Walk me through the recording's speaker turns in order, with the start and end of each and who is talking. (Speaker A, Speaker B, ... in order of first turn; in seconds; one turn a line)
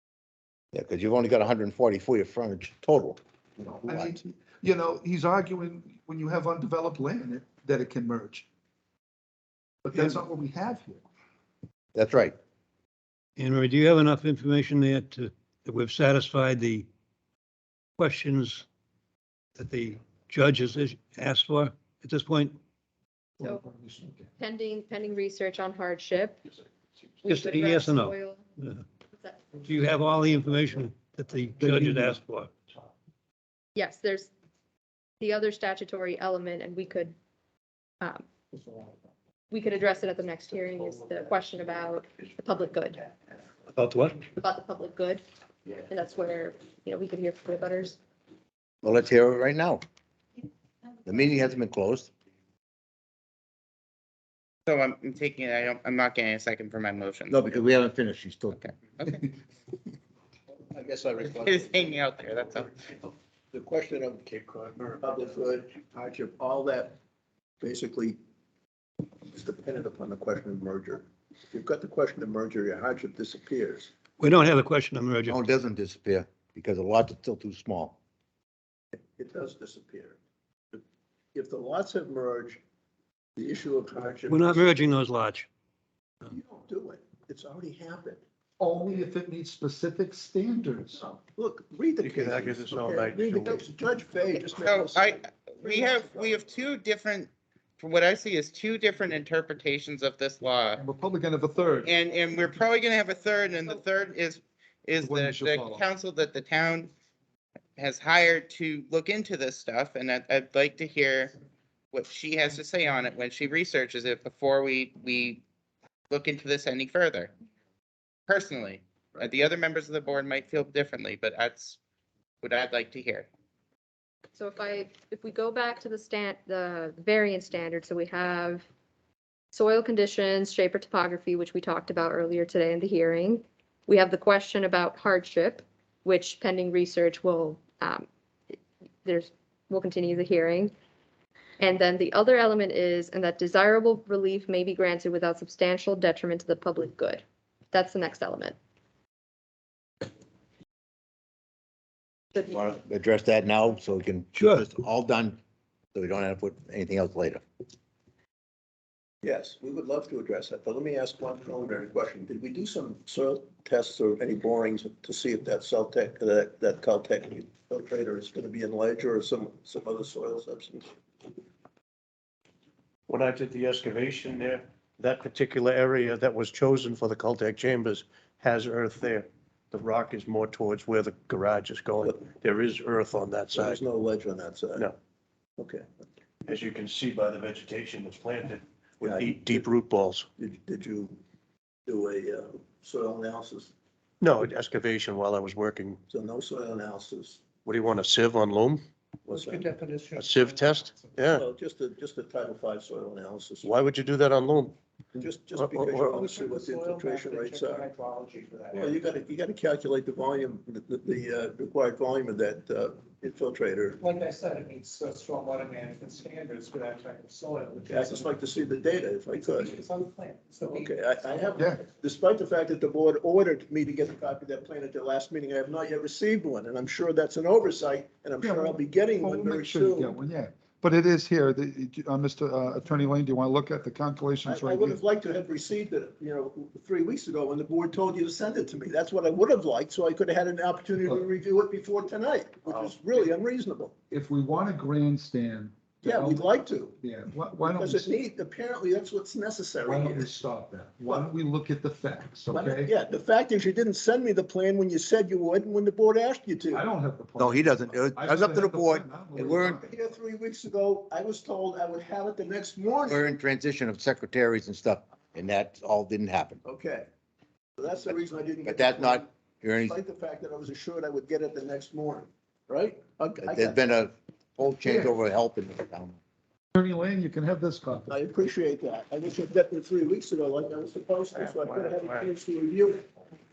Speaker A: 0.7-3.2
Speaker B: 3.6-8.5
Speaker A: 3.8-4.2
Speaker B: 9.8-11.0
Speaker A: 11.9-12.3
Speaker C: 13.4-16.9
Speaker C: 18.0-18.6
Speaker C: 19.6-22.6
Speaker B: 23.4-24.3
Speaker D: 24.4-26.4
Speaker D: 27.2-28.4
Speaker C: 27.2-28.8
Speaker D: 29.2-29.6
Speaker C: 29.6-32.5
Speaker D: 33.7-34.3
Speaker D: 35.2-37.1
Speaker D: 39.5-43.1
Speaker C: 43.8-44.2
Speaker D: 44.3-45.2
Speaker D: 45.9-48.0
Speaker A: 48.8-49.8
Speaker A: 51.0-52.1
Speaker E: 54.7-57.6
Speaker A: 57.3-58.6
Speaker E: 58.5-59.3
Speaker F: 60.5-63.0
Speaker E: 61.2-62.7
Speaker F: 63.5-64.2
Speaker G: 64.2-65.3
Speaker F: 65.0-67.0
Speaker F: 67.6-68.2
Speaker F: 69.2-73.9
Speaker C: 74.2-75.4
Speaker A: 75.2-77.9
Speaker F: 79.0-80.2
Speaker F: 81.3-82.6
Speaker F: 83.4-84.8
Speaker C: 84.3-85.5
Speaker F: 86.3-88.2
Speaker B: 88.6-91.0
Speaker F: 91.0-96.4
Speaker G: 92.0-93.6
Speaker E: 94.5-100.8
Speaker B: 100.8-101.9
Speaker E: 101.8-106.9
Speaker B: 105.0-105.8
Speaker E: 107.8-111.3
Speaker E: 111.9-115.4
Speaker E: 116.1-117.3
Speaker E: 118.3-121.8
Speaker E: 122.4-123.3
Speaker D: 124.4-128.7
Speaker D: 129.5-140.7
Speaker D: 141.6-148.6
Speaker A: 152.5-155.4
Speaker C: 154.4-154.6
Speaker A: 155.9-157.4
Speaker F: 159.2-170.9
Speaker G: 173.1-183.8
Speaker F: 183.5-184.9
Speaker F: 185.6-185.9
Speaker G: 186.5-190.3
Speaker F: 189.0-189.6
Speaker F: 190.4-191.2
Speaker F: 191.9-193.7
Speaker G: 194.2-196.0
Speaker F: 196.1-197.4
Speaker G: 197.7-198.8
Speaker F: 199.3-199.7
Speaker H: 199.3-201.2
Speaker G: 200.1-201.4
Speaker F: 201.3-203.8
Speaker G: 203.6-206.3
Speaker F: 205.2-207.9
Speaker H: 206.1-209.0
Speaker F: 208.7-214.0
Speaker H: 214.0-218.3
Speaker F: 217.9-219.8
Speaker H: 219.4-221.6
Speaker F: 220.6-230.2
Speaker B: 228.4-235.0
Speaker F: 234.5-243.9
Speaker B: 244.1-248.1
Speaker F: 246.0-247.0
Speaker F: 247.6-250.3
Speaker B: 249.8-252.9
Speaker F: 252.5-256.8
Speaker B: 256.7-259.9
Speaker A: 257.4-259.8
Speaker F: 259.7-263.2
Speaker A: 263.1-266.6
Speaker F: 266.6-267.1
Speaker F: 267.8-273.8
Speaker A: 268.6-269.9
Speaker A: 273.5-276.2
Speaker B: 274.9-275.1
Speaker B: 276.7-278.2
Speaker F: 278.1-283.1
Speaker G: 281.3-282.3